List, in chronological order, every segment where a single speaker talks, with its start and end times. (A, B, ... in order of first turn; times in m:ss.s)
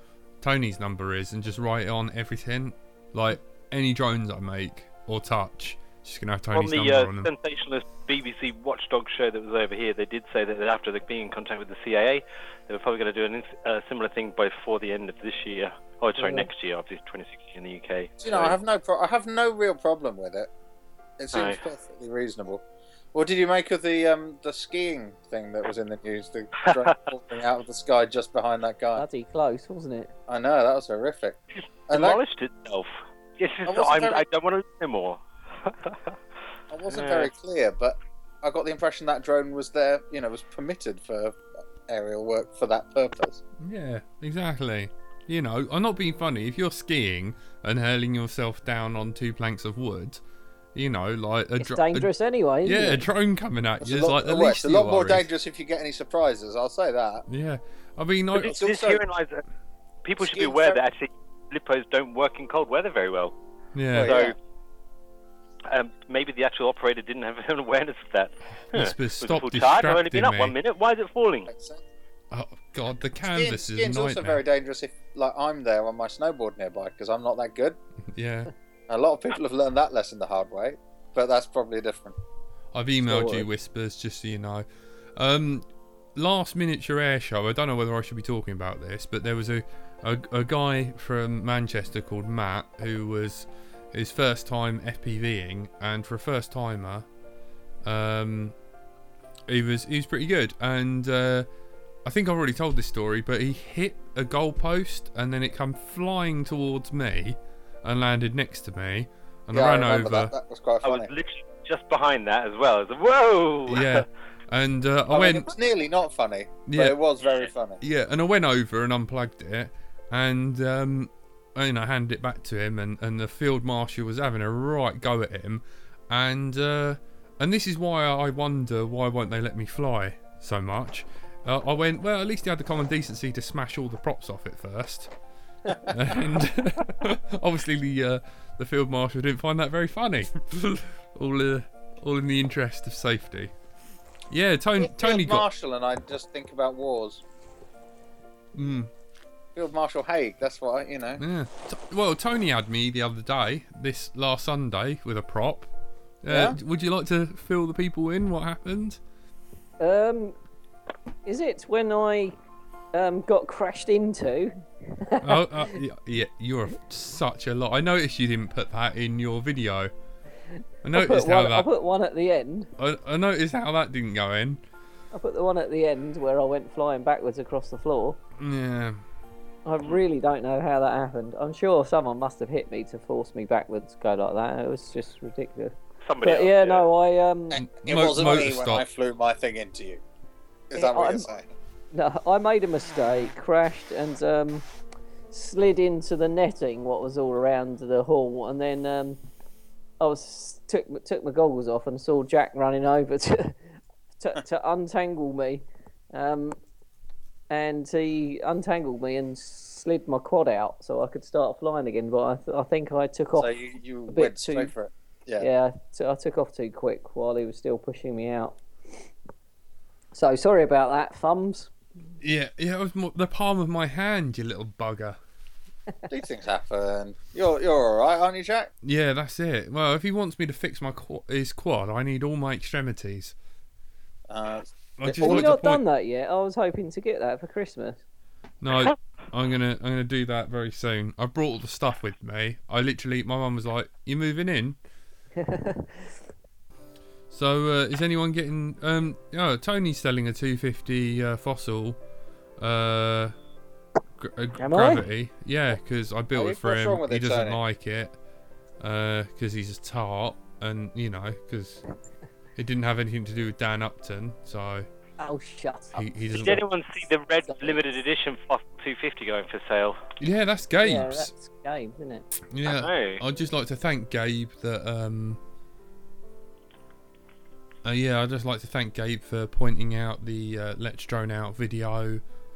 0:00.4-0:07.3 A
0:06.5-0:18.6 B
0:16.2-0:16.5 C
0:18.2-0:20.5 D
0:21.2-0:22.6 D
0:21.3-0:21.6 B
0:23.1-0:29.0 D
0:29.0-0:30.1 C
0:30.3-0:32.2 D
0:31.9-0:36.2 B
0:33.7-0:34.2 D
0:36.7-0:43.4 D
0:36.9-0:37.3 B
0:43.6-0:50.2 A
0:50.7-0:52.1 A
0:51.6-0:53.0 C
0:52.6-0:55.3 A
0:53.8-0:57.2 D
0:57.3-0:58.6 A
0:58.3-0:59.4 B
0:58.4-0:59.0 D
1:00.0-1:03.4 B
1:00.2-1:00.8 D
1:03.7-1:04.1 A
1:03.9-1:04.3 D
1:04.0-1:04.4 B
1:05.7-1:11.5 B
1:08.5-1:10.6 A
1:11.5-1:11.8 D
1:12.3-1:14.4 A
1:13.3-1:17.8 D
1:18.1-1:18.5 A
1:18.9-1:22.2 D
1:22.7-1:24.6 A
1:23.0-1:23.5 C
1:25.2-1:37.0 A
1:37.8-1:38.5 A
1:39.5-1:41.5 A
1:42.0-1:50.3 A
1:49.5-1:51.1 D
1:50.8-1:54.1 B
1:53.7-1:55.5 A
1:55.1-1:57.8 D
1:56.7-1:57.0 A
1:57.8-2:15.1 A
2:15.8-2:23.5 A
2:24.3-2:25.5 A
2:24.8-2:27.2 D
2:28.5-2:28.9 A
2:29.6-2:31.2 D
2:31.2-2:35.7 A
2:36.2-2:39.0 A
2:36.3-2:36.6 D
2:39.8-2:40.4 C
2:41.2-2:42.4 C
2:42.9-2:45.8 C
2:45.2-2:49.9 A
2:50.8-2:51.7 A
2:50.9-2:52.7 C
2:52.8-2:54.6 A
2:55.1-2:58.2 C
2:58.4-2:59.0 A
2:59.6-3:07.6 C
3:06.0-3:06.9 B
3:07.5-3:10.0 D
3:07.5-3:08.8 A
3:10.7-3:11.5 D
3:10.7-3:11.3 C
3:11.9-3:14.6 C
3:15.3-3:19.2 C
3:20.0-3:23.6 C
3:24.2-3:26.6 C
3:27.5-3:33.5 C
3:33.4-3:35.5 D
3:34.1-3:34.7 C
3:35.4-3:38.6 C
3:40.1-3:41.7 C
3:42.2-3:45.2 A
3:46.1-3:48.7 D
3:48.8-3:53.4 A
3:54.3-3:55.5 D
3:55.0-3:55.8 A
3:55.2-3:58.0 C
3:58.6-4:04.8 A
4:05.4-4:06.2 C
4:07.3-4:12.0 A
4:12.6-4:13.3 A
4:14.2-4:18.2 A
4:14.6-4:15.0 C
4:16.3-4:17.6 D
4:18.8-4:21.8 A
4:22.6-4:24.9 A
4:25.2-4:26.1 C
4:25.9-4:26.6 A
4:26.3-4:30.2 B
4:30.2-4:31.3 A
4:30.8-4:32.3 C
4:32.5-4:35.4 A
4:32.6-4:33.2 B
4:37.8-4:42.2 A